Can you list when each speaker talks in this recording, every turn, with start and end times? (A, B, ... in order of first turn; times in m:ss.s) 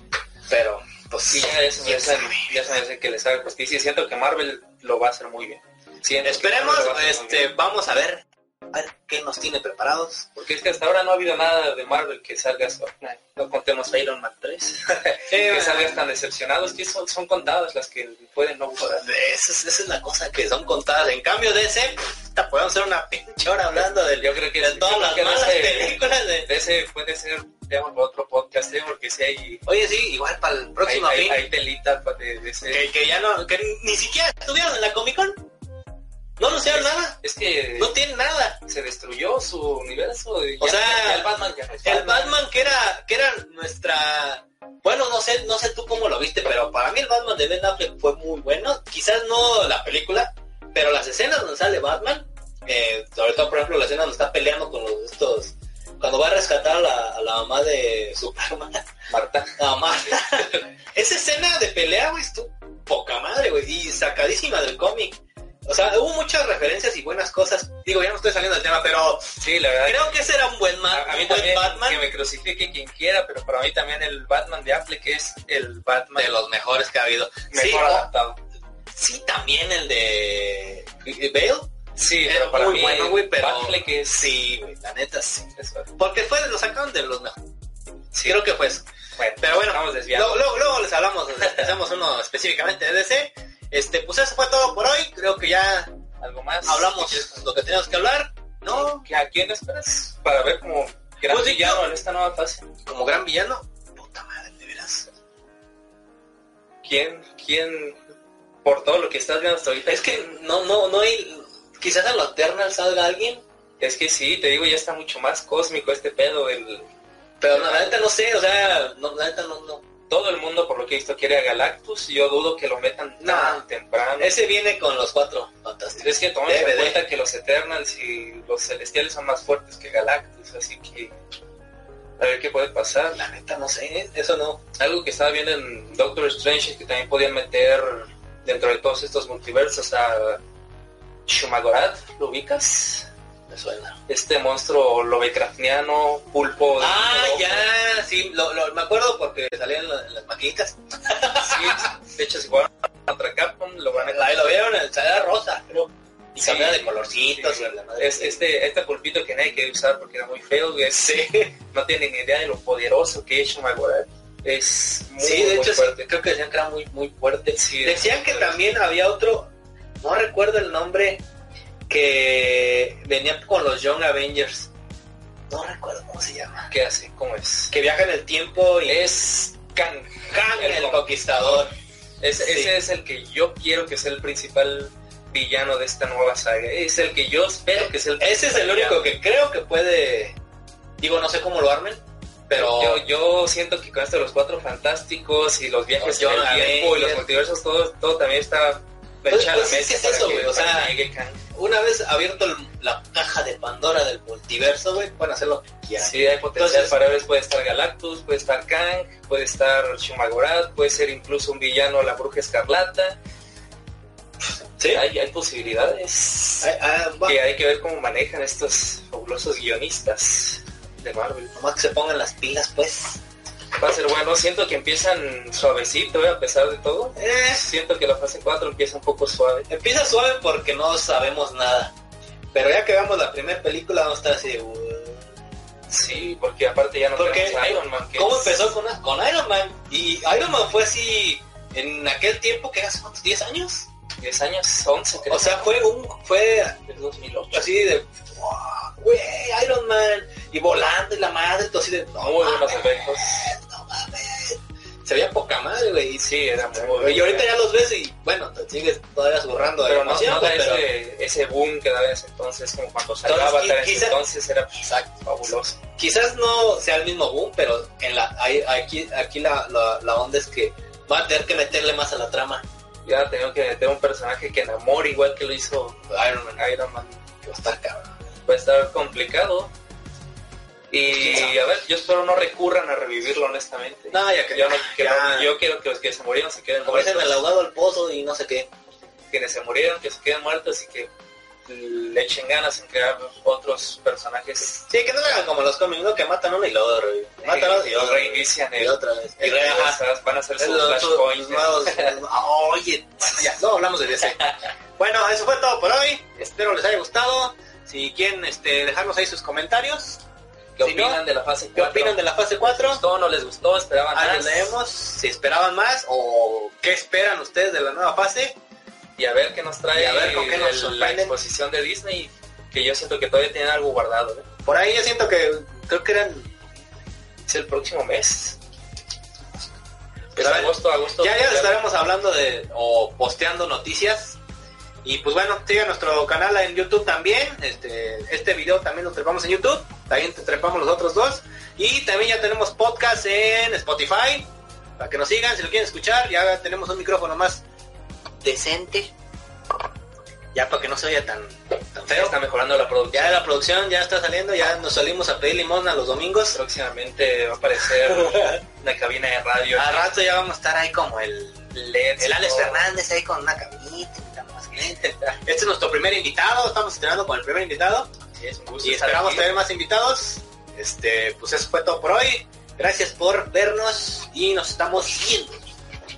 0:00.5-0:02.6 A
0:01.3-0:07.5 B
0:06.2-0:10.3 A
0:10.3-0:19.0 B
0:15.3-0:16.0 A
0:19.0-0:26.5 A
0:24.2-0:29.6 B
0:29.6-0:31.4 A
0:30.8-0:32.9 B
0:32.7-0:35.4 A
0:36.4-0:37.2 A
0:36.4-0:38.0 B
0:37.8-0:38.6 A
0:38.6-0:42.4 B
0:40.6-0:41.3 A
0:41.8-0:58.9 A
0:59.1-0:59.6 B
0:59.6-1:12.0 A
1:09.4-1:10.2 B
1:10.9-1:16.4 B
1:16.2-1:18.1 A
1:17.5-1:18.4 B
1:18.9-1:21.7 A
1:22.0-1:24.3 B
1:22.2-1:27.4 A
1:25.6-1:25.9 B
1:28.1-1:28.4 B
1:28.2-1:28.9 A
1:29.2-1:30.4 B
1:29.4-1:35.9 A
1:36.2-1:37.3 B
1:36.7-1:39.0 A
1:38.7-1:42.7 B
1:41.3-1:41.9 A
1:42.9-1:45.1 A
1:46.8-1:48.0 B
1:48.6-1:50.3 B
1:49.9-1:53.4 A
1:53.8-1:56.9 B
1:57.4-1:59.8 A
1:57.5-1:57.9 B
2:00.1-2:04.4 B
2:03.2-2:03.6 A
2:04.2-2:07.0 A
2:06.0-2:11.1 B
2:12.2-2:13.2 B
2:13.1-2:14.6 A
2:14.8-2:20.4 B
2:21.3-2:23.1 B
2:23.5-2:24.0 A
2:24.1-2:27.7 B
2:26.8-2:31.9 A
2:31.3-2:34.5 B
2:33.9-2:38.4 A
2:36.4-2:46.1 B
2:41.0-2:41.5 A
2:45.2-2:49.5 A
2:47.5-2:48.8 B
2:50.0-2:51.2 A
2:51.9-2:54.7 A
2:55.5-2:56.7 A
2:56.7-2:57.7 B
2:57.7-2:59.1 A
2:58.9-3:01.0 B
3:00.3-3:01.7 A
3:02.2-3:09.1 B
3:02.4-3:02.7 A
3:07.8-3:10.4 A
3:11.0-3:13.0 A
3:12.6-3:21.4 B
3:16.0-3:17.2 A
3:19.3-3:20.9 A
3:21.5-3:27.0 A
3:26.0-3:33.2 B
3:34.8-3:35.0 A
3:34.8-3:36.7 B
3:36.6-3:37.4 A
3:37.3-3:41.5 B
3:41.6-3:43.2 A
3:43.8-3:49.7 B
3:47.2-3:47.6 A
3:49.7-3:51.9 A
3:52.5-3:55.3 A
3:55.9-3:58.7 B
3:57.2-4:03.9 A
4:04.2-4:05.8 B
4:05.3-4:06.8 A
4:06.9-4:07.6 B
4:07.5-4:20.8 A
4:12.2-4:13.5 B
4:16.2-4:17.5 B
4:19.8-4:25.8 B
4:23.2-4:24.2 A
4:26.0-4:32.6 A
4:33.0-4:36.0 B
4:36.1-4:36.6 A
4:36.6-4:37.2 B
4:37.4-4:38.1 A
4:38.4-4:39.7 B
4:40.9-4:47.4 B
4:41.1-4:41.6 A
4:44.1-4:45.5 A
4:46.8-4:48.7 A
4:49.3-4:51.1 B
4:51.7-4:54.9 B
4:54.9-5:00.0 A
4:57.4-5:02.2 B
5:00.6-5:10.2 A
5:10.8-5:14.7 B
5:10.8-5:11.2 A
5:11.7-5:13.0 A
5:14.1-5:18.6 A
5:19.2-5:24.4 B
5:20.0-5:21.4 A
5:24.6-5:26.5 A
5:27.5-5:28.6 B
5:30.3-5:31.8 B
5:30.4-5:34.4 A
5:35.0-5:47.6 A
5:48.4-5:49.1 A
5:50.5-5:52.4 A
5:52.1-5:53.5 B
5:53.1-5:56.6 A
5:56.5-6:00.1 B
5:58.1-5:58.6 A
5:59.7-6:01.6 A
6:01.7-6:02.9 B
6:02.2-6:08.1 A
6:08.3-6:09.5 B
6:08.8-6:15.6 A